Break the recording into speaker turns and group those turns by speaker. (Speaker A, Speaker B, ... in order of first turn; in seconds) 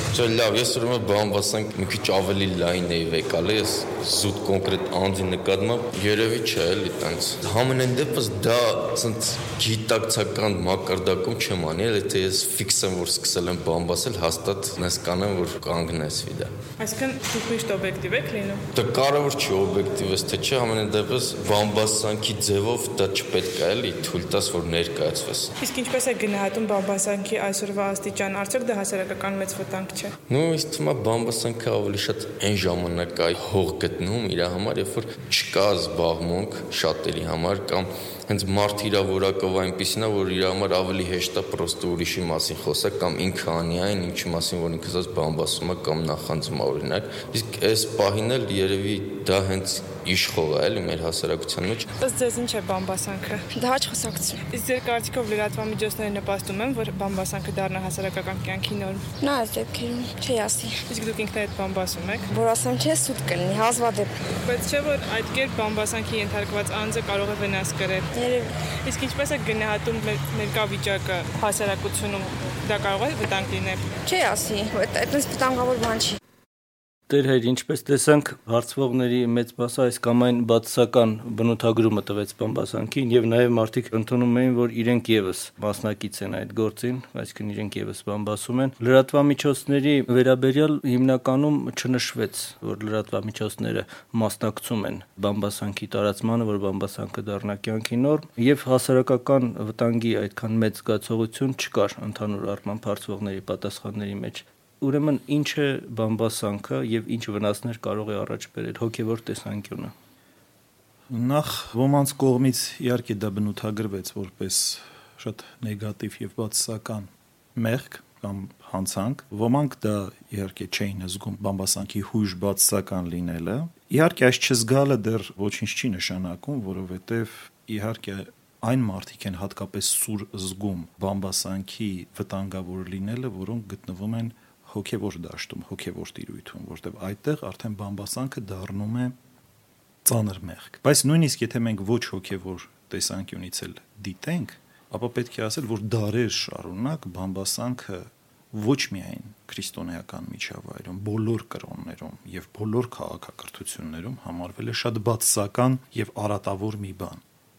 Speaker A: 0.1-16.5, 18.7-25.5, 30.3-51.9
Speaker B: 16.8-18.6, 25.6-30.1, 52.0-53.5, 54.5-59.1, 60.9-62.3, 64.4-68.1, 68.8-73.9
Speaker C: 53.5-54.4, 59.2-60.8, 62.3-64.1, 68.1-68.5, 74.0-76.2
Speaker D: 77.1-109.9
Speaker E: 111.1-139.2, 140.0-157.2